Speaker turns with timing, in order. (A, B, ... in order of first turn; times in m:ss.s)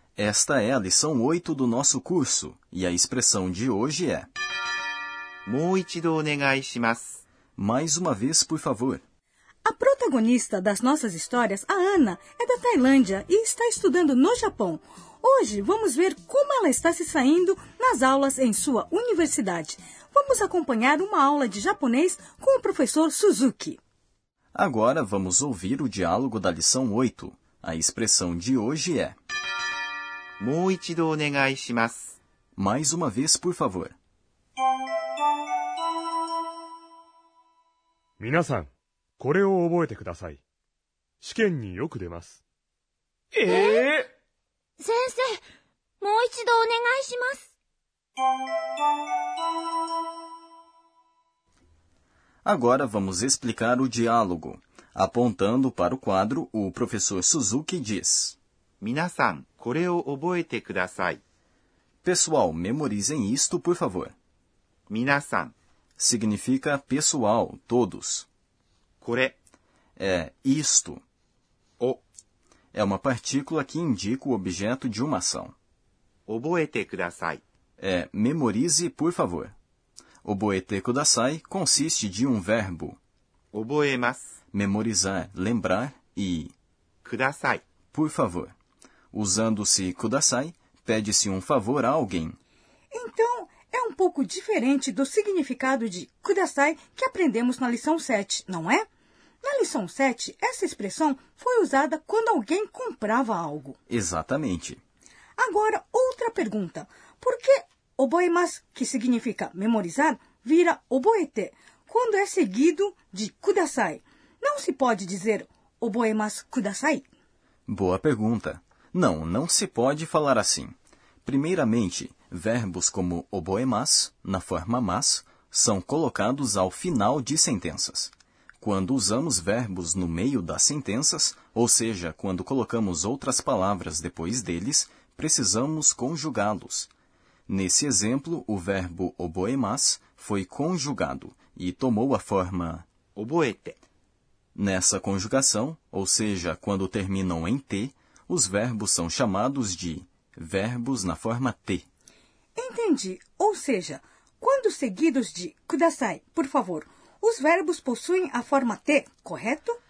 0:00.2-0:04.3 A
0:05.5-0:07.2 B
0:07.6-0:09.0 A
0:09.6-0:23.8 C
0:24.6-0:29.2 A
0:30.4-0:32.2 B
0:32.6-0:33.9 A
0:38.2-0:40.4 D
0:41.2-0:42.4 D
0:43.3-0:44.1 D
0:43.5-0:43.9 E
0:44.8-0:45.4 E
0:46.0-0:47.5 E
0:52.4-0:58.4 A
0:58.8-1:01.2 B
1:02.0-1:04.1 A
1:04.9-1:05.5 B
1:06.0-1:08.3 A
1:09.0-1:09.4 B
1:10.0-1:11.0 A
1:12.7-1:15.6 A
1:16.3-1:17.4 B
1:17.8-1:19.5 A
1:20.2-1:23.0 A
1:23.5-1:24.4 B
1:24.5-1:26.5 A
1:27.0-1:27.6 B
1:27.9-1:28.5 A
1:29.1-1:32.4 A
1:32.9-1:38.8 C
1:39.4-1:43.8 C
1:43.9-1:44.8 A
1:45.4-1:57.1 C
1:57.7-2:16.9 A
2:17.5-2:22.8 A
2:23.2-2:23.8 B
2:24.6-2:31.9 A
2:32.6-2:39.8 C